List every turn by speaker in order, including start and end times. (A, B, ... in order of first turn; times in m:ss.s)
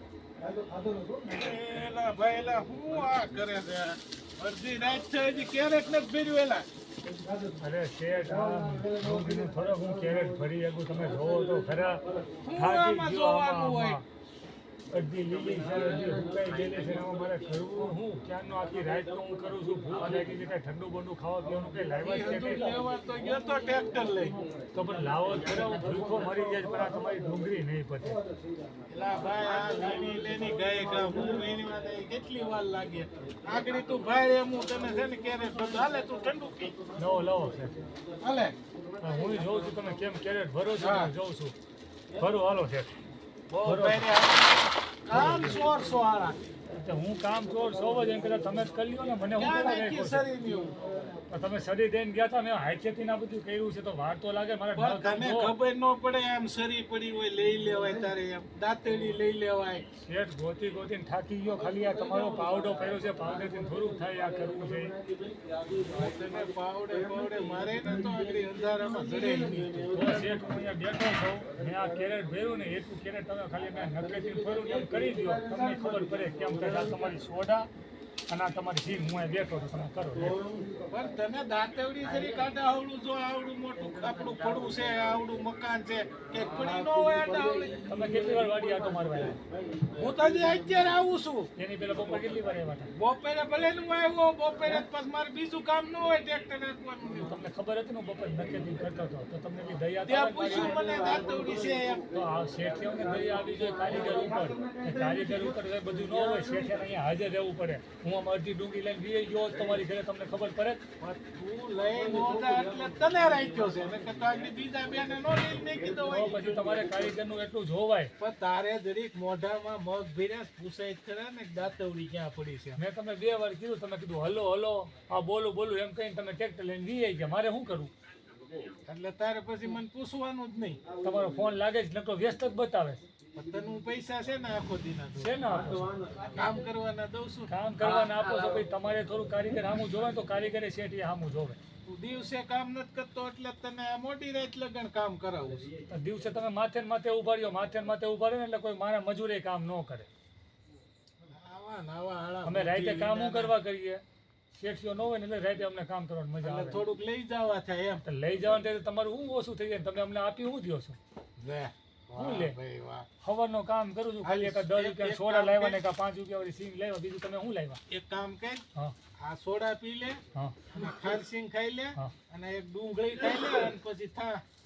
0:00.4-0:01.2 A
0:01.2-0:06.6 B
0:07.6-0:12.0 C
0:08.8-0:09.4 A
0:12.4-0:14.0 B
0:12.5-0:14.0 C
0:14.9-0:22.7 C
0:22.0-0:24.4 B
0:24.7-0:28.2 C
0:28.9-0:36.8 B
0:36.9-0:37.7 C
0:38.2-0:38.5 B
0:39.0-0:41.6 C
0:40.8-0:41.1 B
0:42.2-0:42.9 C
0:43.5-0:46.4 B
0:43.6-0:44.0 C
0:45.1-0:45.6 C
0:46.8-0:50.3 C
0:49.4-0:50.8 B
0:51.3-0:55.5 C
0:54.8-0:59.8 B
1:00.0-1:05.0 C
1:05.0-1:05.7 A
1:05.8-1:10.2 B
1:09.5-1:09.9 A
1:09.9-1:17.7 C
1:18.3-1:20.4 C
1:20.9-1:27.9 B
1:27.2-1:28.6 A
1:27.8-1:29.4 C
1:29.9-1:31.5 B
1:31.6-1:32.9 C
1:32.9-1:37.4 B
1:37.2-1:40.8 C
1:40.0-1:42.1 B
1:42.1-1:50.8 C
1:43.8-1:45.1 A
1:51.0-1:56.7 B
1:56.0-1:58.1 C
1:58.2-2:02.8 B
2:02.8-2:07.9 C
2:08.9-2:10.8 B
2:11.0-2:13.0 C
2:13.3-2:15.4 B
2:15.2-2:16.0 C
2:16.3-2:17.5 B
2:17.5-2:21.6 C
2:21.8-2:25.7 B
2:25.9-2:30.1 C
2:31.3-2:33.5 B
2:32.4-2:34.0 C
2:34.5-2:36.8 C
2:36.4-2:38.0 B
2:38.0-2:41.0 C
2:41.4-2:43.1 B
2:42.1-2:42.6 C
2:43.2-2:47.8 C
2:44.2-2:45.8 B
2:47.9-2:48.6 B
2:49.2-2:54.4 B